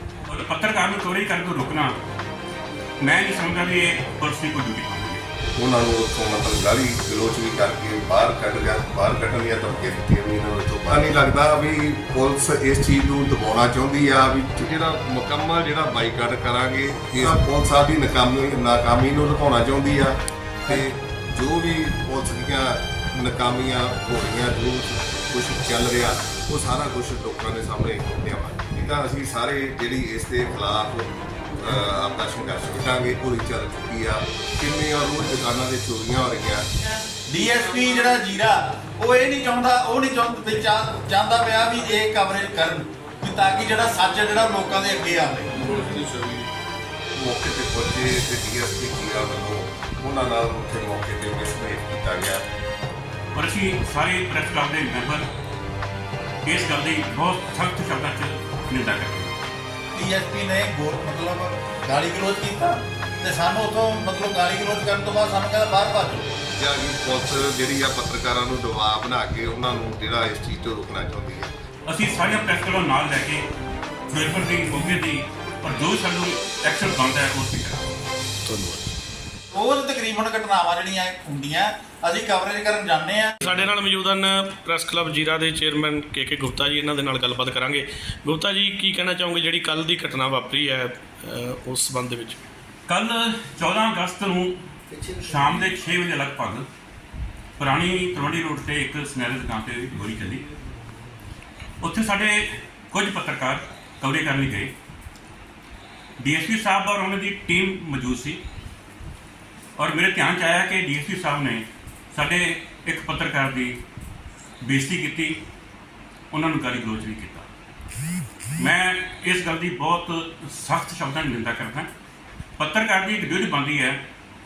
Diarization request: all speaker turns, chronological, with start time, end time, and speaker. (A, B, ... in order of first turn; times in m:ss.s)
0:00.3-0:02.0 A
0:03.0-0:05.2 A
0:05.6-0:36.6 B
0:37.3-0:46.0 C
0:45.7-0:46.4 D
0:47.2-0:52.4 B
0:53.3-0:55.3 A
0:56.4-0:59.3 A
1:00.0-1:06.3 C
1:06.6-1:11.5 B
1:11.9-1:13.4 A
1:14.1-1:17.9 A
1:18.5-1:18.8 D
1:19.5-1:23.4 C
1:23.4-1:32.4 D
1:32.9-1:36.7 A
1:37.6-1:40.4 A
1:41.8-1:44.7 A
1:46.2-1:48.4 A
1:49.8-1:53.8 A
1:54.6-1:55.4 A
1:56.3-1:57.5 A
1:58.6-2:01.9 A
2:02.6-2:04.0 A